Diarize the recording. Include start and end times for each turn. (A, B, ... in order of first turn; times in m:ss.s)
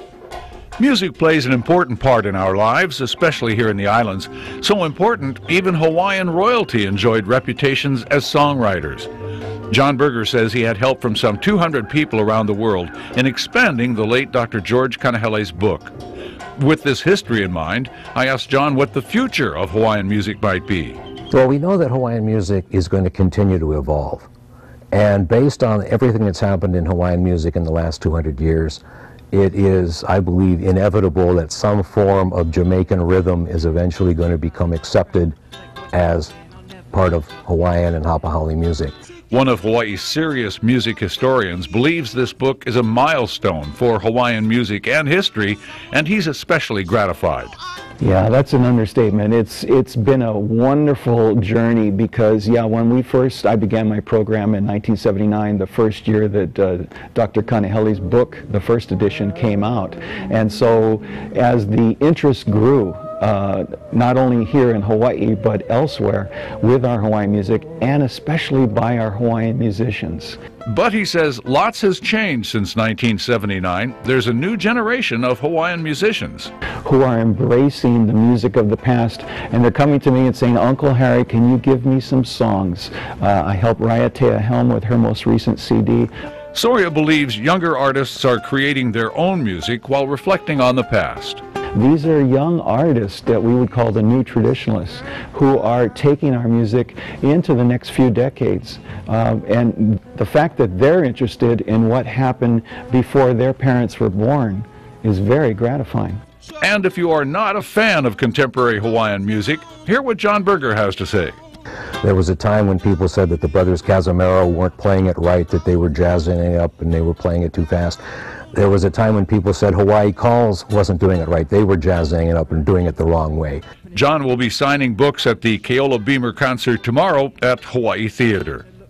0:00.8-0:09.1 A
0:09.7-0:15.9 A
0:16.6-0:21.0 A
0:21.3-0:24.3 B
0:24.9-0:28.8 B
0:29.3-0:35.4 B
0:35.9-0:36.3 B
0:36.9-0:39.0 B
0:39.3-0:47.6 A
0:48.0-1:10.4 C
1:10.7-1:16.5 A
1:16.8-1:26.1 C
1:26.5-1:31.4 A
1:31.7-1:46.2 C
1:46.6-1:51.4 A
1:52.0-1:58.0 B
1:58.5-2:03.6 B
2:03.9-2:08.7 A